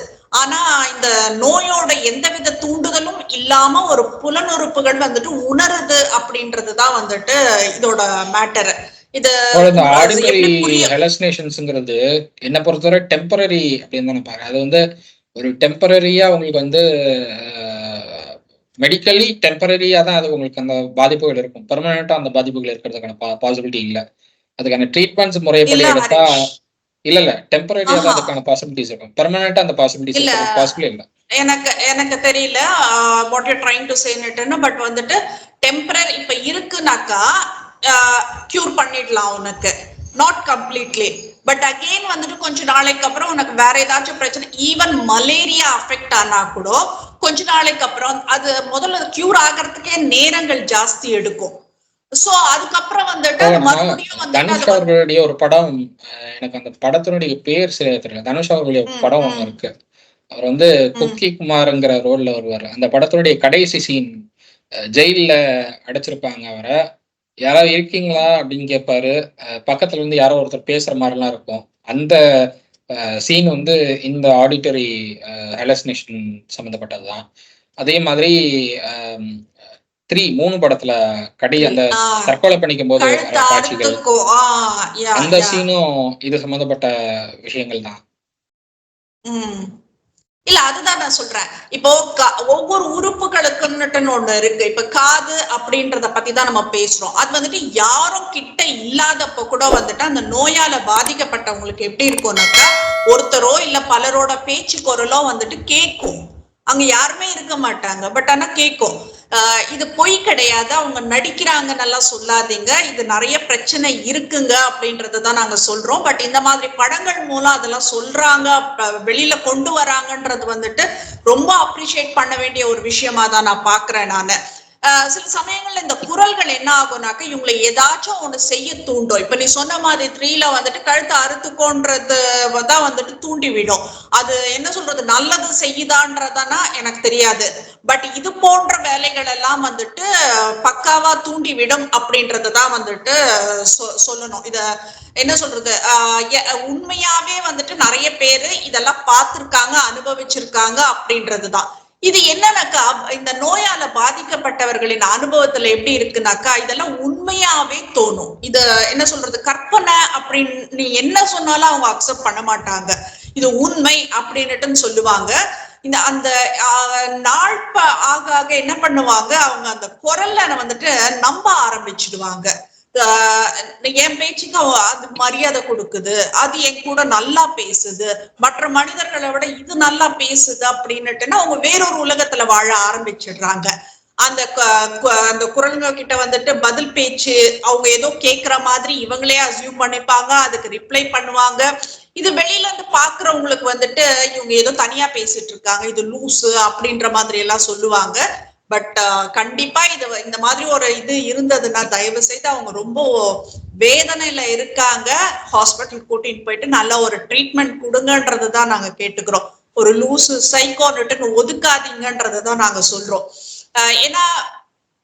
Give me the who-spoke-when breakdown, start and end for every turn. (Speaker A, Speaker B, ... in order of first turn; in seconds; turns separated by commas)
Speaker A: 0.4-10.9, Speaker B: 9.5-14.8, Speaker B: 15.4-24.0, Speaker B: 24.6-26.2, Speaker A: 25.7-26.3, Speaker B: 27.1-31.0, Speaker A: 27.9-28.3, Speaker A: 30.1-30.7, Speaker A: 31.4-37.2, Speaker A: 37.9-51.5, Speaker A: 52.2-54.8, Speaker B: 53.4-59.7, Speaker A: 58.9-59.5, Speaker B: 60.3-64.1, Speaker B: 65.0-66.8, Speaker B: 67.5-69.1, Speaker B: 69.6-72.2, Speaker B: 73.0-77.2, Speaker B: 77.8-79.4, Speaker B: 80.1-84.0, Speaker A: 81.6-82.3, Speaker A: 83.0-85.6, Speaker B: 85.2-86.9, Speaker B: 87.4-88.0, Speaker A: 89.3-89.7, Speaker A: 90.5-106.2, Speaker A: 106.7-124.4, Speaker A: 124.9-144.6, Speaker A: 145.2-183.7, Speaker A: 184.2-191.6, Speaker A: 192.2-213.2, Speaker A: 213.8-214.3